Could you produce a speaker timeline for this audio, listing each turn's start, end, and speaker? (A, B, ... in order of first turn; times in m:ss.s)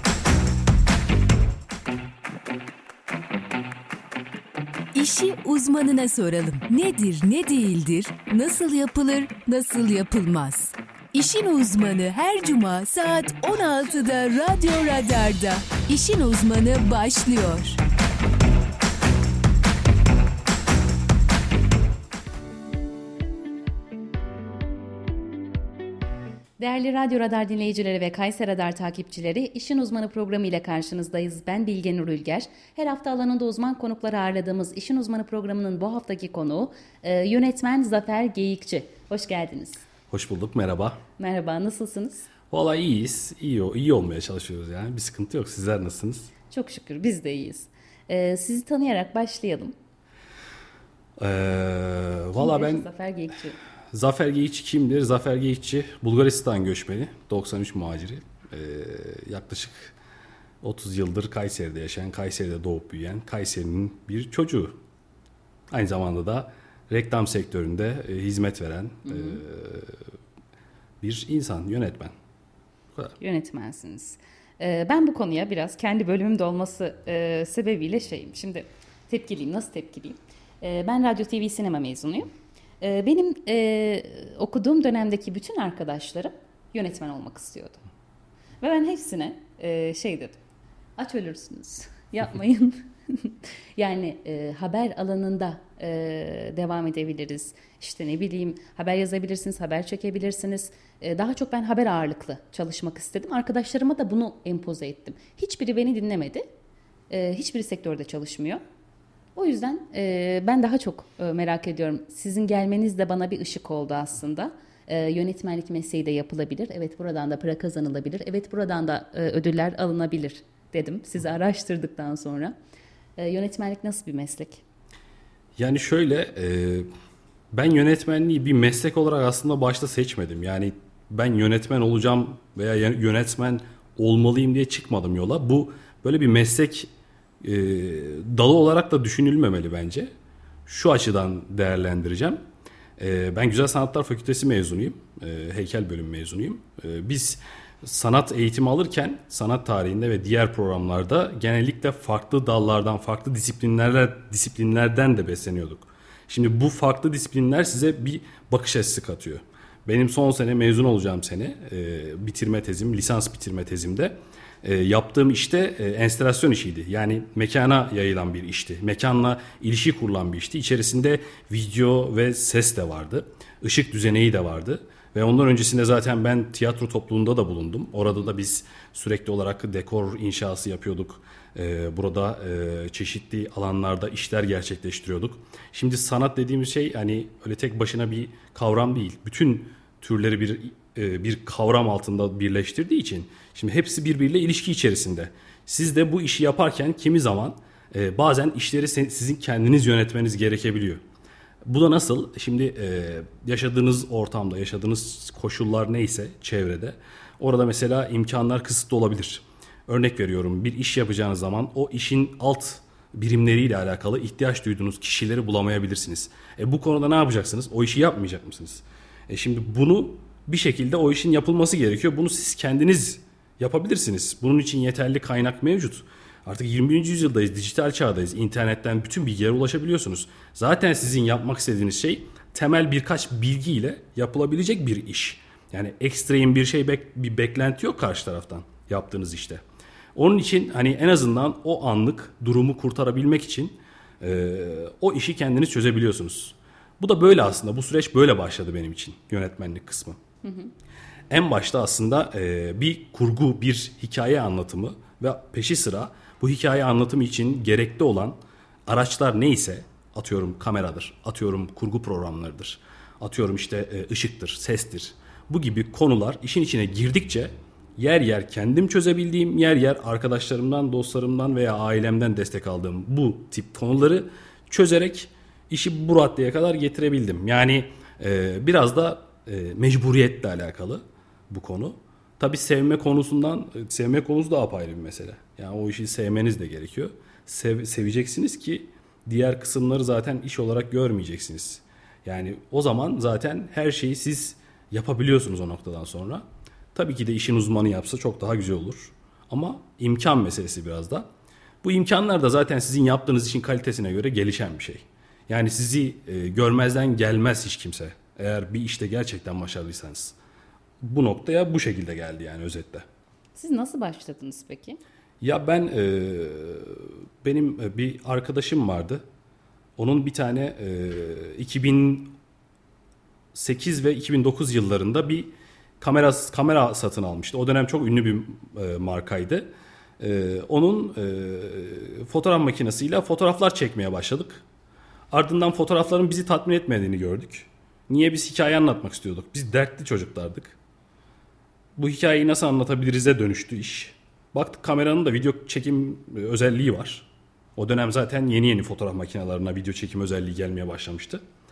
0:04.9-0:17.8 A
0:26.6-0:39.8 B
0:40.1-0:41.0 C
0:41.2-0:42.3 B
0:42.5-0:46.3 C
0:46.5-0:49.7 B
0:51.2-0:52.9 C
0:52.3-0:53.6 B
0:53.9-0:59.9 C
1:00.6-1:04.8 C
1:05.7-1:10.0 C
1:09.1-1:09.4 B
1:11.0-1:12.1 C
1:13.2-1:22.3 B
1:22.8-1:27.8 B
1:28.6-1:30.4 B
1:31.0-1:46.4 B
1:47.1-1:48.6 B
1:49.4-2:02.5 B
2:03.2-2:04.6 B
2:05.6-2:06.9 C
2:07.5-2:16.9 C
2:17.4-2:20.1 C
2:20.6-2:22.4 C
2:23.0-3:21.0 C
3:21.6-3:59.6 C
4:00.1-4:10.2 C
4:10.4-4:10.7 B
4:11.3-5:01.2 C
5:01.8-5:10.4 C
5:11.0-5:13.0 C
5:13.5-5:15.0 B
5:15.4-5:19.2 C
5:20.0-5:22.4 C
5:23.5-5:29.7 C
5:30.2-5:34.6 C
5:35.3-5:40.8 C
5:42.0-5:51.4 C